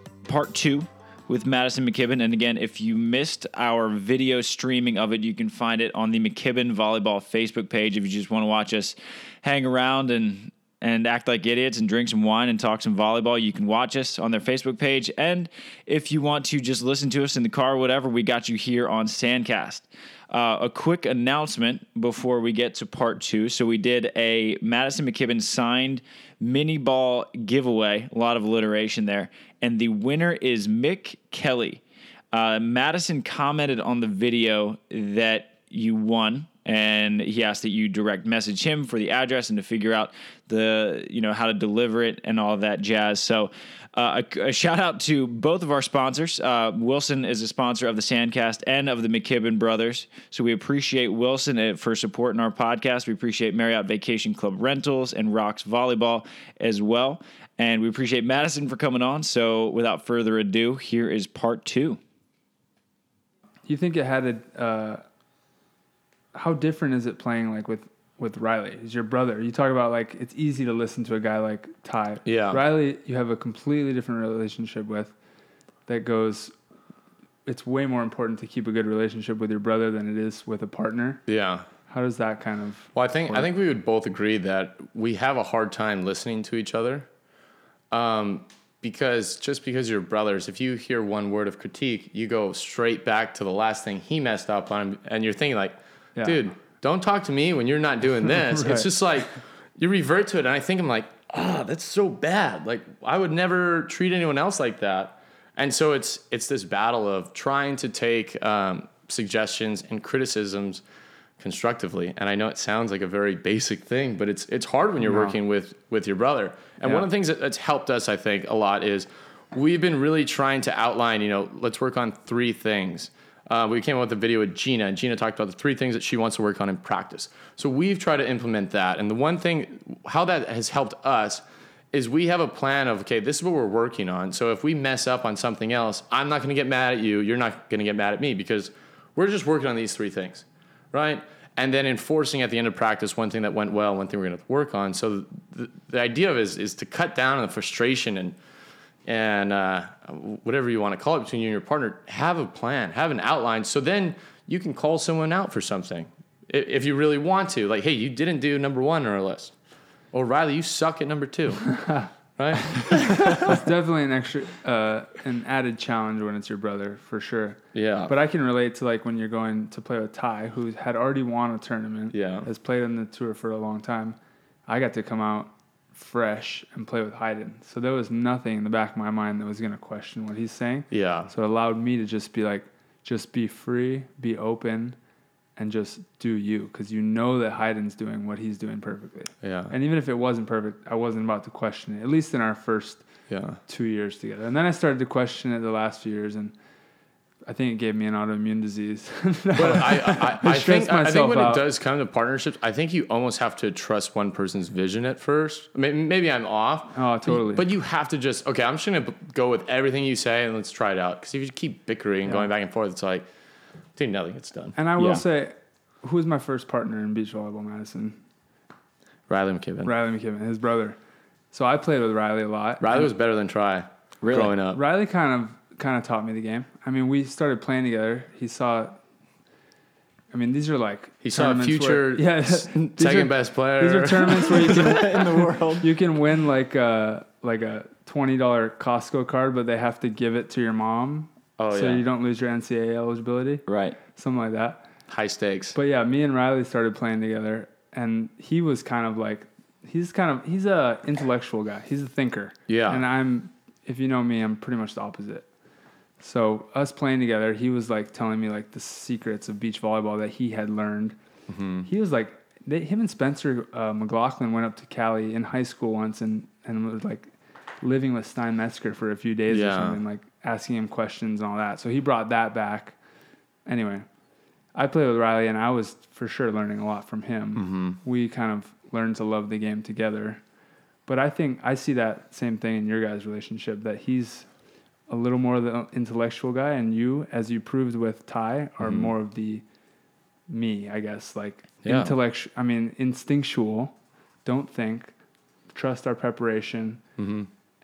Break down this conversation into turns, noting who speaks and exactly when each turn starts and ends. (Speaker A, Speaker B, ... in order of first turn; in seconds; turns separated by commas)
Speaker A: 0.2-62.0, Speaker B: 63.6-65.0, Speaker B: 66.3-75.1, Speaker C: 72.2-72.6, Speaker B: 75.9-76.5, Speaker B: 77.5-81.2, Speaker C: 81.3-81.7, Speaker B: 81.9-83.5, Speaker C: 82.9-87.1, Speaker C: 87.9-110.8, Speaker B: 96.2-96.4, Speaker B: 98.5-98.9, Speaker C: 111.4-148.3, Speaker B: 115.0-115.3, Speaker C: 149.1-159.5, Speaker C: 160.1-163.6, Speaker B: 163.4-174.2, Speaker C: 167.7-168.1, Speaker C: 172.1-172.5, Speaker B: 174.7-185.0, Speaker C: 180.9-181.3, Speaker B: 185.6-193.0, Speaker C: 189.4-189.7, Speaker C: 193.3-193.6, Speaker B: 193.7-196.5, Speaker B: 197.4-201.6, Speaker C: 199.6-213.2, Speaker B: 206.9-207.6, Speaker C: 213.9-214.8, Speaker B: 214.7-218.2, Speaker A: 215.0-215.2, Speaker C: 219.3-219.9, Speaker B: 219.8-221.0, Speaker B: 221.5-223.1, Speaker C: 222.8-224.8, Speaker A: 224.2-224.5, Speaker B: 224.7-229.0, Speaker B: 230.3-243.6, Speaker C: 231.2-234.7, Speaker A: 234.6-235.8, Speaker C: 241.6-242.0, Speaker A: 243.7-244.0, Speaker B: 244.2-244.8, Speaker C: 245.1-245.8, Speaker B: 245.7-255.5, Speaker C: 252.7-253.0, Speaker B: 256.2-261.1, Speaker C: 261.5-261.9, Speaker B: 261.8-267.3, Speaker B: 267.8-272.9, Speaker C: 269.5-270.0, Speaker B: 273.6-274.1, Speaker B: 274.8-280.4, Speaker C: 277.5-278.0, Speaker B: 281.1-284.5, Speaker B: 285.1-289.6, Speaker C: 288.8-289.1, Speaker B: 290.5-295.1, Speaker C: 291.8-292.1, Speaker B: 295.7-297.0, Speaker C: 297.2-297.5